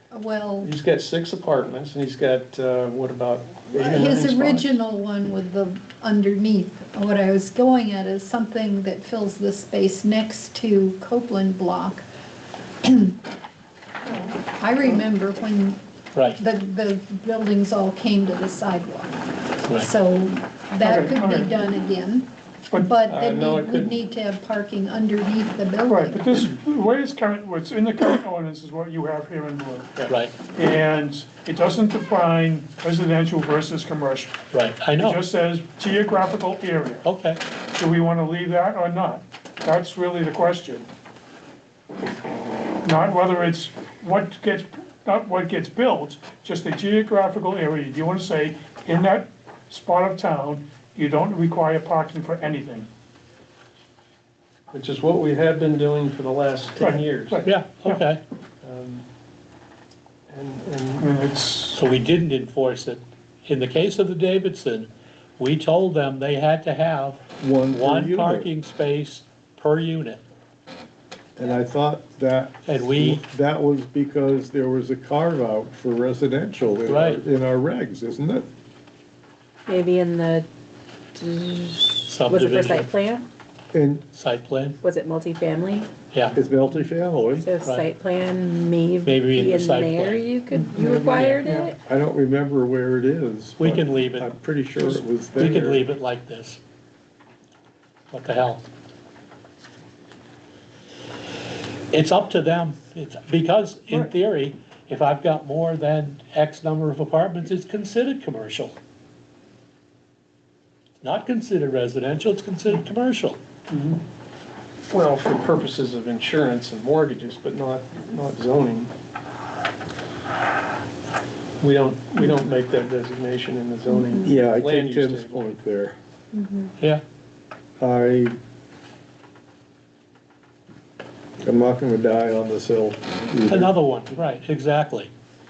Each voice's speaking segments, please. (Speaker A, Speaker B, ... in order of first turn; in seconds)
Speaker A: 0.1-0.7, 3.7-12.1, 12.8-13.2, 14.5-15.8, 16.4-22.3, 22.8-26.4
Speaker B: 0.6-4.8, 23.1-24.0, 54.7-57.4, 58.6-59.0, 60.3-61.1, 114.9-118.9, 121.6-125.6
Speaker C: 14.1-14.3, 20.8-21.5, 25.9-34.4, 35.0-37.0, 37.7-40.9, 42.8-52.9, 56.8-58.0, 61.0-61.8, 91.4-91.7
Speaker D: 16.1-16.4, 30.1-30.3, 34.5-35.2, 37.0-37.4, 57.4-58.2, 61.7-70.2, 72.7-73.2, 76.9-77.2, 82.0-82.9, 84.2-84.8, 86.1-86.4, 87.6-87.9, 89.0-90.2, 90.8-91.4, 93.6-96.6, 98.1-98.7, 101.9-108.8, 111.0-113.4, 133.5-135.1
Speaker E: 67.4-68.5, 71.4-78.5, 83.7-84.1, 86.3-87.5, 91.8-95.8, 124.2-126.0, 127.8-128.4, 131.4-133.7
Speaker F: 79.7-80.5, 81.1-83.3, 84.8-85.9, 87.4-91.8, 123.9-124.3, 126.3-126.7